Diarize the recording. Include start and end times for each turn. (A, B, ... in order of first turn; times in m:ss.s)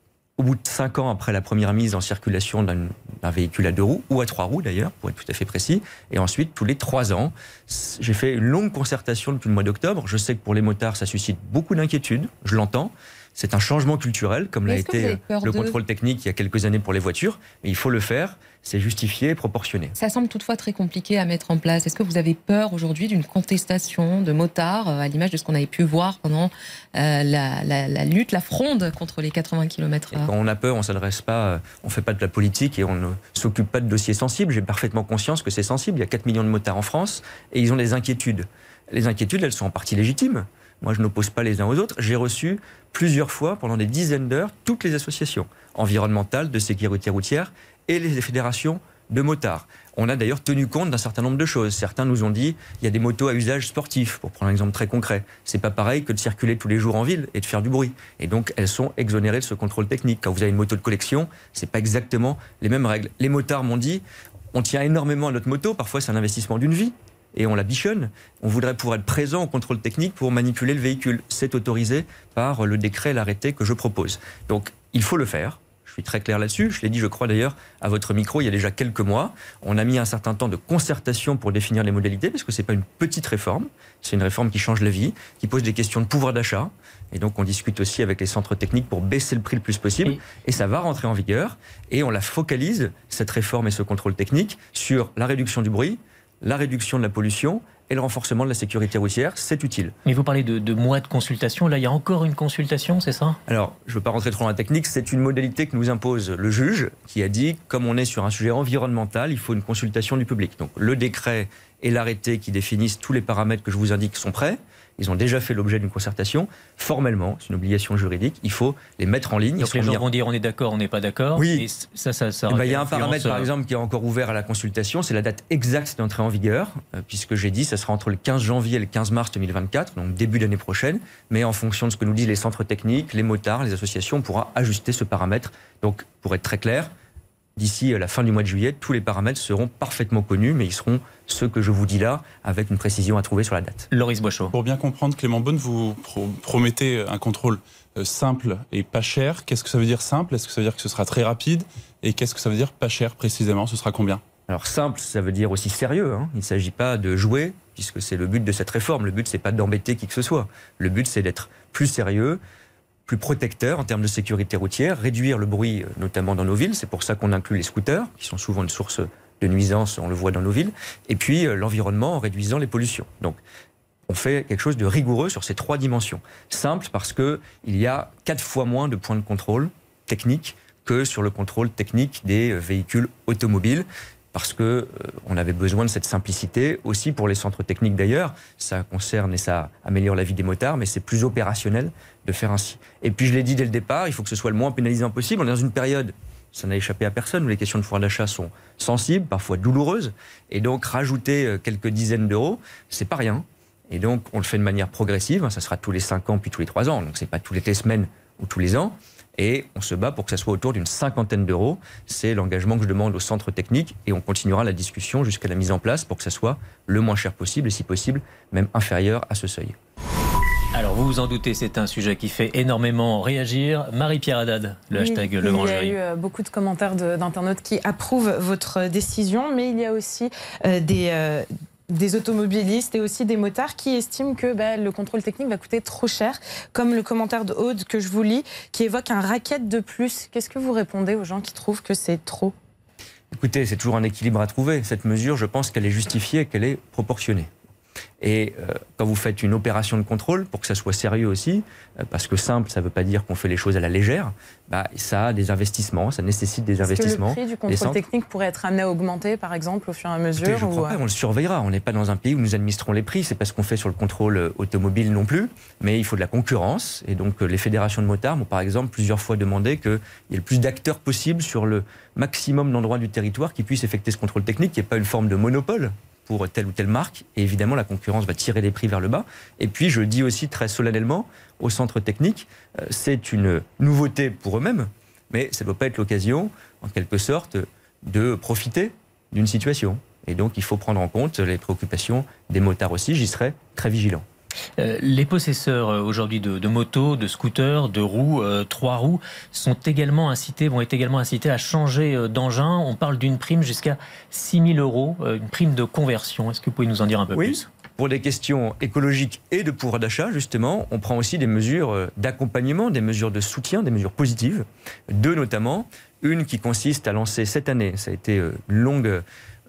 0:00.4-0:20.0 A
0:14.7-0:15.8 B
0:20.0-0:30.3 B
0:30.1-1:40.0 A
1:40.1-1:43.4 C
1:43.5-2:00.1 A
1:59.6-2:03.5 C
2:01.4-2:01.7 A
2:02.5-2:16.9 A
2:17.6-2:23.9 A
2:23.9-2:24.5 C
2:24.5-2:34.2 D
2:34.5-2:42.4 A
2:43.1-2:53.4 A
2:54.1-3:39.8 A
3:40.7-3:46.0 C
3:45.0-4:02.5 E
4:03.3-4:07.5 A
4:08.2-4:18.0 A
4:16.8-4:21.0 E
4:20.4-4:54.2 A
4:54.8-5:07.7 C
5:07.3-5:19.2 A